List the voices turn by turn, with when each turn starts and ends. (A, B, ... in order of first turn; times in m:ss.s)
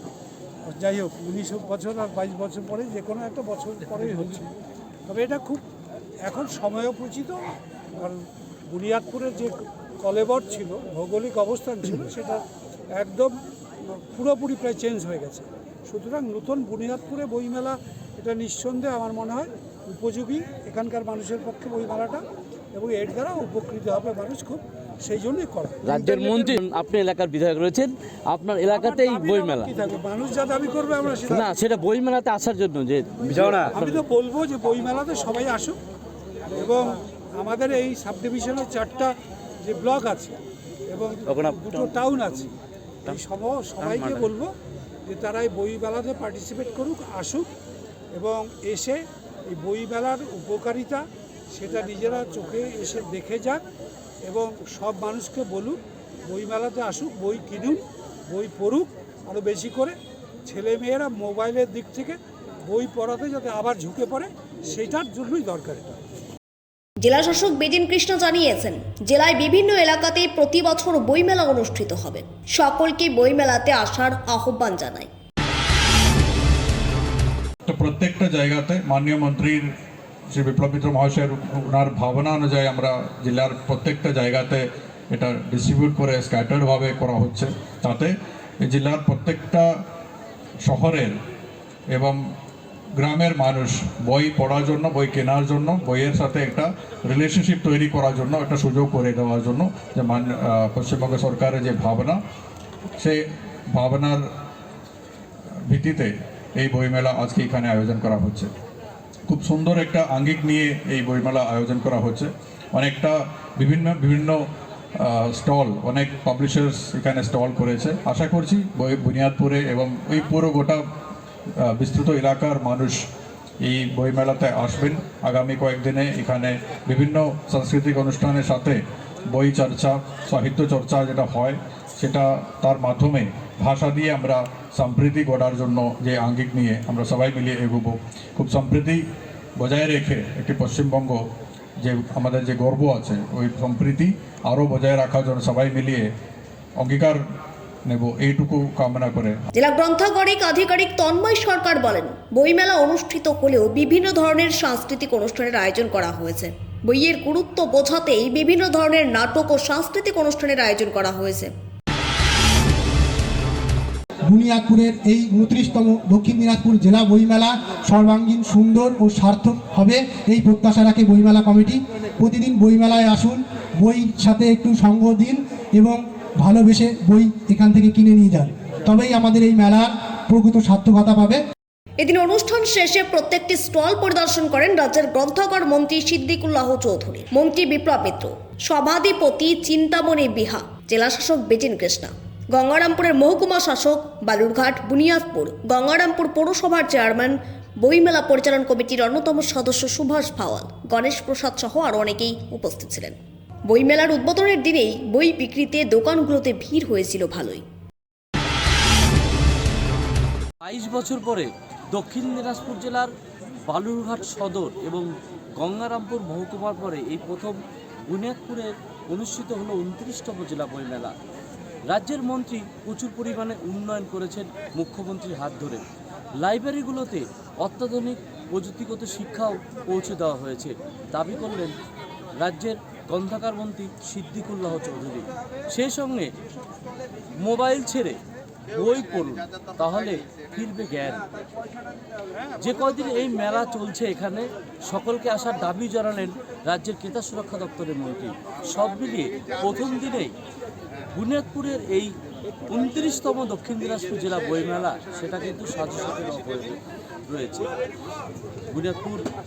0:00.7-0:04.1 A
0:05.1-0:05.6 A
0:06.2-0:07.4 A
0:08.7-0:12.4 A
0:13.0-0:13.3 A
0:13.9-0:22.2 A
0:22.7-0:26.6 A
0:25.8-0:29.9 B
0:29.1-0:31.4 A
0:31.2-0:34.1 B
0:33.7-0:35.8 A
0:36.6-0:39.1 A
0:39.6-0:40.4 A
0:40.9-0:42.3 A
0:41.2-0:42.4 B
0:43.2-0:44.5 A
0:43.8-0:44.3 B
0:45.1-0:47.5 A
0:48.1-0:51.0 A
0:51.5-0:53.6 A
0:54.3-0:59.9 A
1:00.5-1:02.2 A
1:02.7-1:06.0 A
1:07.0-1:15.1 C
1:17.6-1:19.6 D
1:20.3-1:29.7 D
1:30.6-1:31.1 D
1:31.9-1:32.2 D
1:33.0-1:42.2 D
1:43.7-1:44.2 D
1:45.7-1:48.5 D
1:49.3-1:54.4 D
1:55.0-2:00.8 D
2:01.8-2:03.0 D
2:03.6-2:08.8 D
2:09.3-2:19.0 D
2:19.6-2:21.2 D
2:21.8-2:26.1 D
2:26.8-2:27.2 D
2:27.9-2:29.4 D
2:29.6-2:41.5 C
2:44.3-3:01.4 E
3:02.0-3:23.2 C
3:23.7-3:27.6 C
3:30.6-3:33.1 B
3:33.7-3:41.1 B
3:41.9-3:45.8 B
3:46.4-3:51.8 B
3:52.4-3:56.3 B
3:57.4-3:58.2 B
3:58.7-4:01.2 B
4:02.6-4:10.3 B
4:11.1-4:12.1 B
4:12.7-4:17.7 B
4:18.7-4:19.3 B